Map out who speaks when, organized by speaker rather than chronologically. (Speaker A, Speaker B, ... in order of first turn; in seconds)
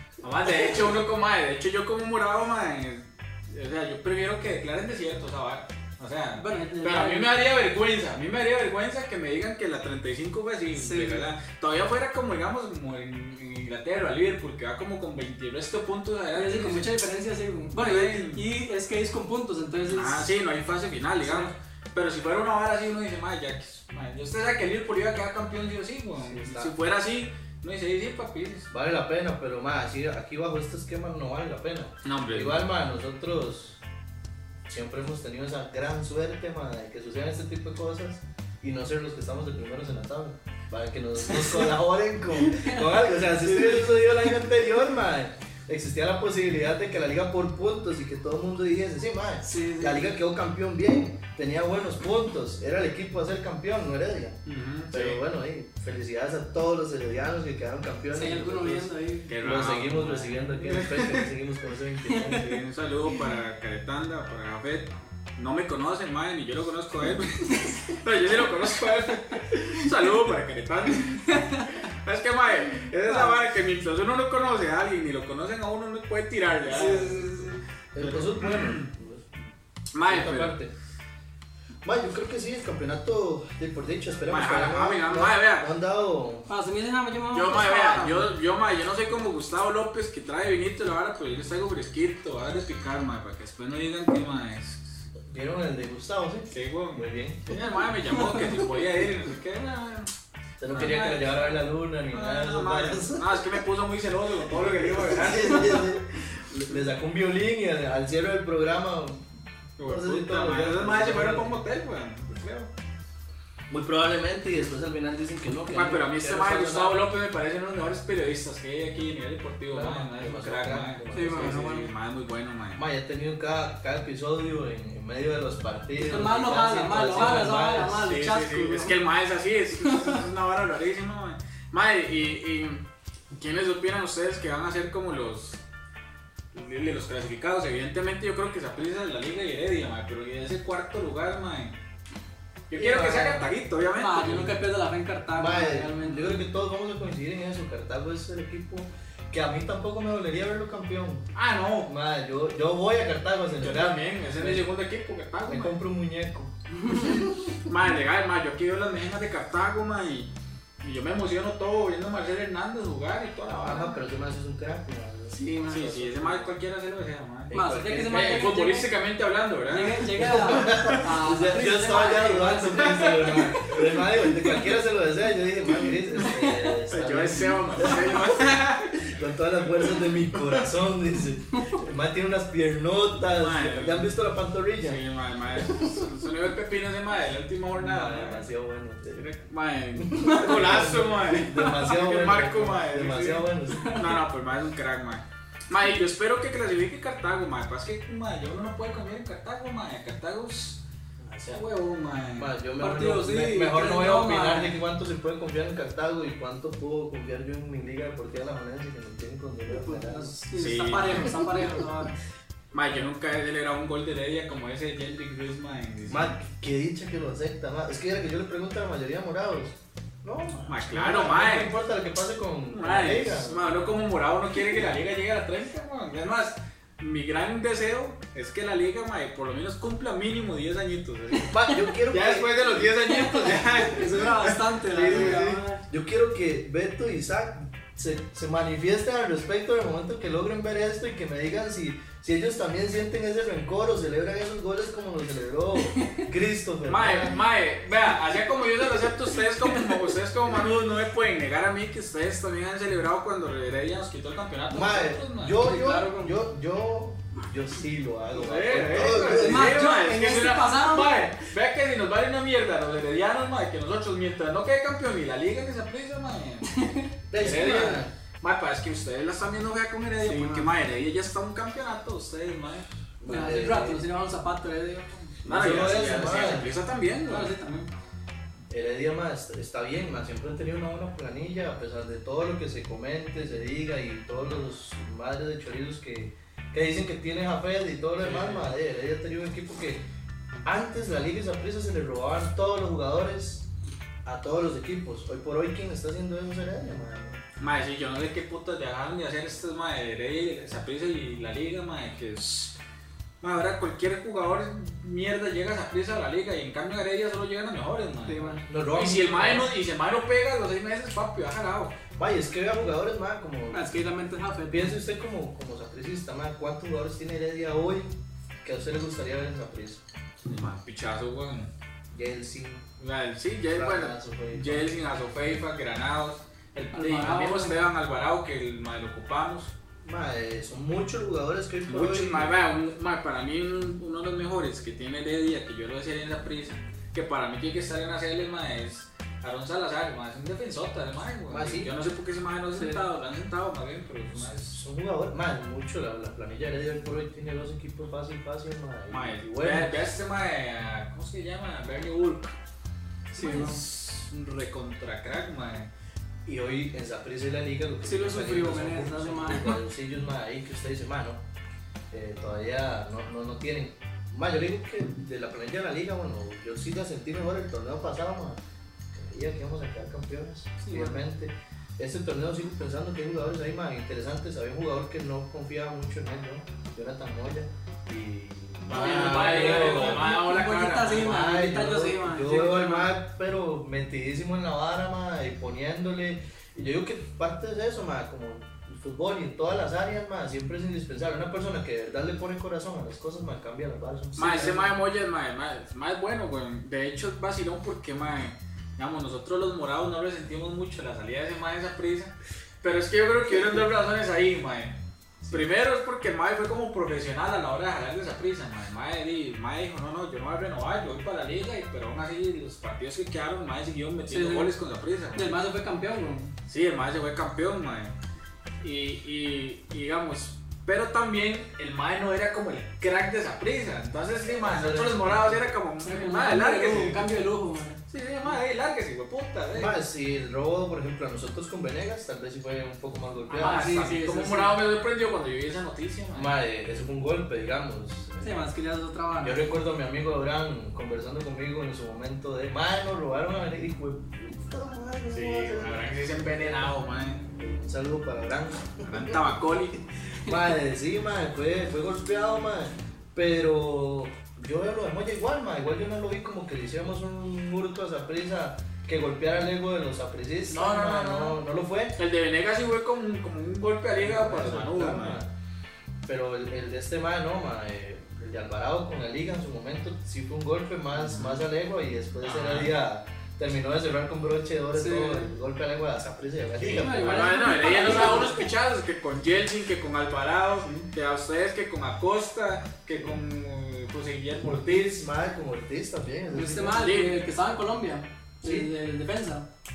Speaker A: 0.2-16.9, 17.7-18.5, 19.9-28.7, 32.0-32.6, 54.5-55.2, 59.3-61.2, 62.3-77.5, 78.0-78.9, 79.9-80.6, 84.3-85.7, 87.3-95.0, 96.5-100.1, 100.7-101.6, 102.1-105.9, 109.8-112.7, 115.7-122.8, 128.0-132.8, 133.3-135.6, 136.5-141.8, 142.7-144.5, 151.3-151.9, 153.6-155.8, 157.7-160.3, 160.8-163.9, 165.7-167.6, 168.1-171.0, 172.8-173.6, 176.9-179.1, 179.9-180.6, 183.3-184.2, 184.8-188.5, 189.1-200.8, 201.4-202.5, 210.5-211.7, 212.7-216.3, 220.7-221.7, 222.7-235.6, 246.9-255.6, 258.3-272.9, 275.4-277.5, 288.2-288.7, 297.6-302.7, 303.4-311.9, 320.4-321.7, 323.0-329.7, 331.9-344.8, 349.1-352.5, 353.4-355.9, 378.8-381.4, 394.4-404.9, 405.5-415.5, 416.7-418.1, 418.8-427.4, 428.1-429.9, 433.6-436.6, 445.3-447.4, 449.0-450.0, 460.7-461.6, 462.1-465.4, 471.1-471.6, 472.4-472.9, 476.9-485.2, 486.9-487.4
Speaker B: 6.3-7.4, 10.7-11.3, 16.3-20.3, 21.2-21.5, 42.5-43.8, 49.4-50.1, 58.1-59.3, 62.1-62.4, 71.3-71.7, 73.1-73.4, 76.7-77.6, 86.5-88.3, 97.5-98.5, 121.1-121.9, 126.0-129.0, 129.8-130.2, 142.7-146.4, 165.3-165.9, 167.5-168.9, 169.7-174.3, 193.7-194.1, 202.8-204.8, 209.7-212.2, 233.0-235.8, 255.5-256.4, 259.3-261.2, 266.7-267.0, 270.2-270.7, 273.2-275.4, 277.2-277.9, 308.2-308.6, 313.7-314.9, 326.9-327.8, 342.7-343.0, 353.3-353.8, 358.0-359.8, 370.8-371.2, 378.9-383.1, 414.3-414.7, 415.3-416.5, 426.0-428.0, 433.5-434.8, 438.4-439.8, 474.9-475.5, 476.8-478.7, 486.5-489.6
Speaker C: 26.2-26.7, 28.7-33.8, 34.7-54.4, 54.9-62.5, 77.9-79.3, 80.0-80.7, 81.8-86.5, 95.3-97.5, 100.6-103.6, 105.0-109.3, 109.8-111.6, 113.7-117.0, 119.7-121.8, 122.7-128.1, 145.3-151.2, 151.8-154.7, 155.4-157.5, 163.4-166.5, 167.5-168.5, 170.1-185.0, 187.8-189.2, 189.9-193.9, 201.2-201.6, 202.3-210.3, 216.1-223.8, 231.5-232.5, 234.9-247.4, 254.7-259.9, 267.3-268.1, 273.2-274.0, 275.4-276.7, 278.7-290.0, 290.6-293.7, 294.2-297.4, 308.6-309.7, 312.2-313.9, 314.7-318.1, 318.6-320.0, 322.1-322.9, 323.7-324.9, 330.0-332.6, 341.5-341.9, 344.3-350.1, 356.4-361.4, 362.1-368.6, 369.1-380.3, 381.1-395.0, 424.4-425.7, 429.7-434.0, 436.3-438.6, 439.4-446.9, 447.5-449.6, 450.4-462.2, 464.2-465.5, 466.2-477.6, 484.6-487.1, 488.6-488.9